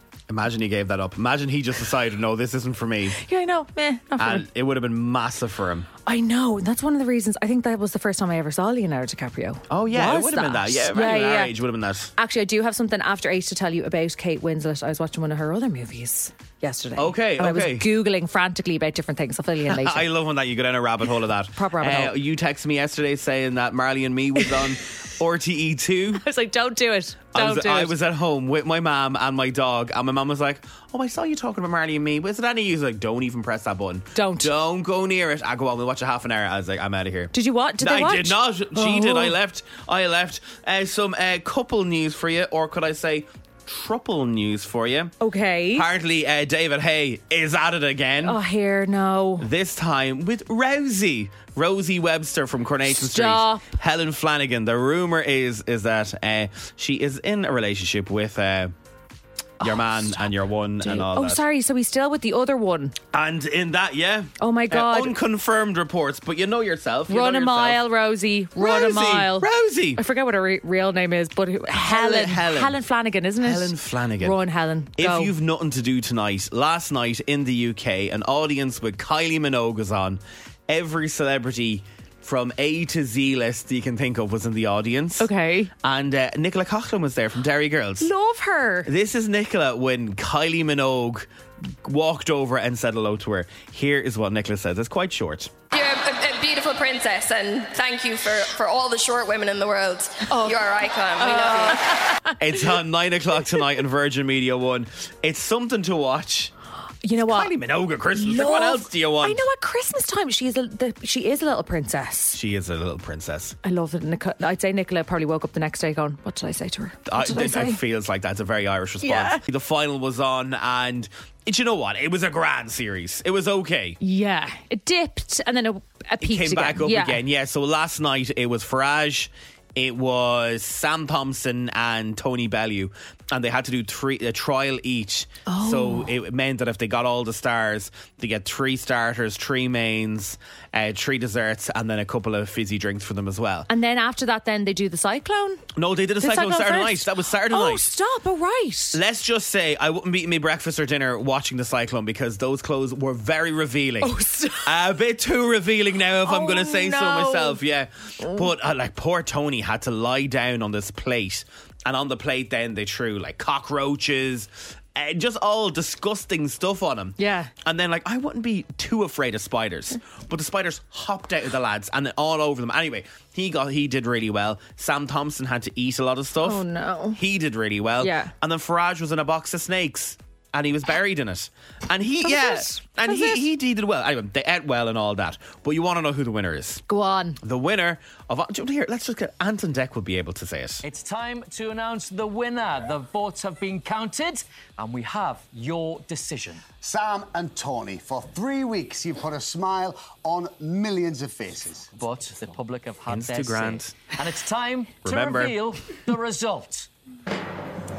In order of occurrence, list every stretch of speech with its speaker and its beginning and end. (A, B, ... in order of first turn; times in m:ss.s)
0:00.3-0:03.2 A
0:03.2-0:04.4 B
0:04.2-0:05.9 A
0:06.0-0:11.5 B
0:09.7-0:12.1 A
0:12.2-0:20.1 B
0:17.0-0:17.9 A
0:19.7-0:26.2 A
0:21.6-0:22.1 B
0:26.2-0:28.0 B
0:27.3-0:45.1 A
0:34.1-0:34.5 B
0:37.3-0:39.3 B
0:45.2-0:45.9 B
0:45.7-0:48.4 A
0:48.2-0:49.5 B
0:49.4-0:58.7 A
0:53.0-0:53.6 B
0:59.6-1:00.2 B
0:59.6-1:01.4 A
1:00.8-1:02.9 B
1:03.1-1:07.8 A
1:04.4-1:05.2 B
1:07.1-1:15.3 B
1:08.6-1:10.0 A
1:11.7-1:12.8 A
1:13.4-1:14.4 A
1:15.0-1:25.3 A
1:25.2-1:25.7 B
1:25.8-1:28.1 A
1:28.0-1:28.9 B
1:28.8-1:31.3 A
1:31.8-1:35.5 A
1:35.7-1:42.0 C
1:40.3-1:40.6 B
1:41.2-1:42.4 B
1:42.4-1:46.5 A
1:47.0-1:47.5 B
1:47.2-1:49.4 A
1:48.1-1:52.4 B
1:52.3-1:53.6 A
1:53.6-1:57.8 B
1:57.1-2:04.0 A
1:59.0-1:59.4 B
2:04.0-2:07.2 B
2:06.2-2:23.7 A
2:15.5-2:16.1 B
2:23.7-2:25.6 B
2:25.8-2:27.9 A
2:26.2-2:29.0 B
2:28.9-2:34.1 A
2:34.0-2:34.7 B
2:34.6-2:56.6 A
2:36.2-2:37.6 B
2:47.2-2:47.5 B
2:56.4-2:57.2 B
2:57.1-3:06.8 A
2:58.0-2:58.3 B
3:02.2-3:03.4 B
3:06.9-3:07.4 B
3:07.4-3:10.8 A
3:10.8-3:16.6 D
3:16.8-3:21.9 E
3:21.9-3:26.9 D
3:23.1-3:24.0 A
3:25.0-3:25.6 A